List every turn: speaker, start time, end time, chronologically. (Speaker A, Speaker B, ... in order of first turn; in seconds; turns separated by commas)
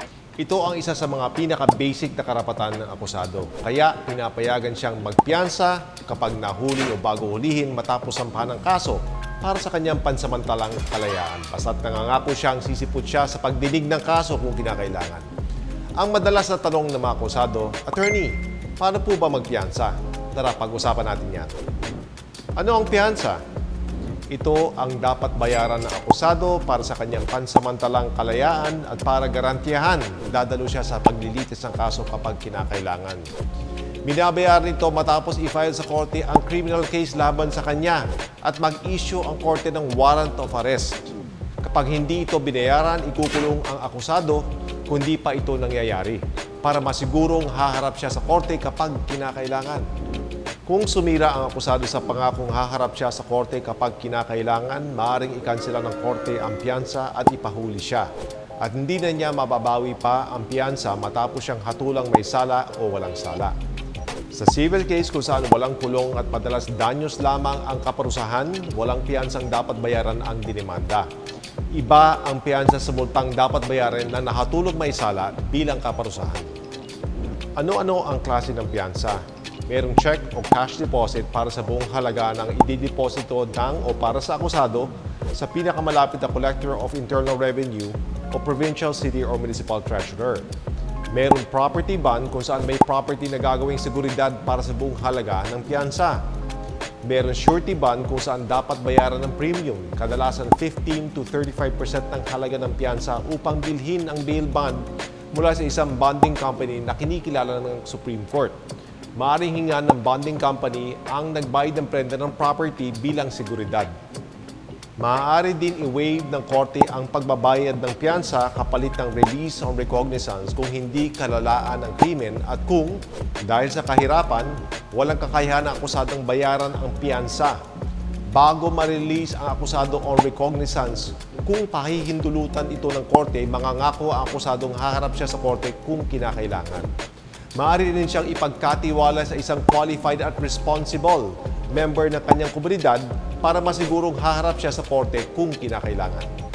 Speaker A: 0.4-15.2, Speaker A: 16.0-21.5, Speaker A: 22.6-23.4, Speaker A: 24.3-33.3, Speaker A: 34.0-41.1, Speaker A: 41.6-49.9, Speaker A: 50.6-58.1, Speaker A: 58.6-63.5, Speaker A: 64.3-71.1, Speaker A: 71.7-76.5, Speaker A: 77.6-90.5, Speaker A: 91.1-96.2, Speaker A: 97.0-108.6, Speaker A: 109.2-113.9, Speaker A: 115.0-127.6, Speaker A: 128.3-136.9, Speaker A: 137.6-146.3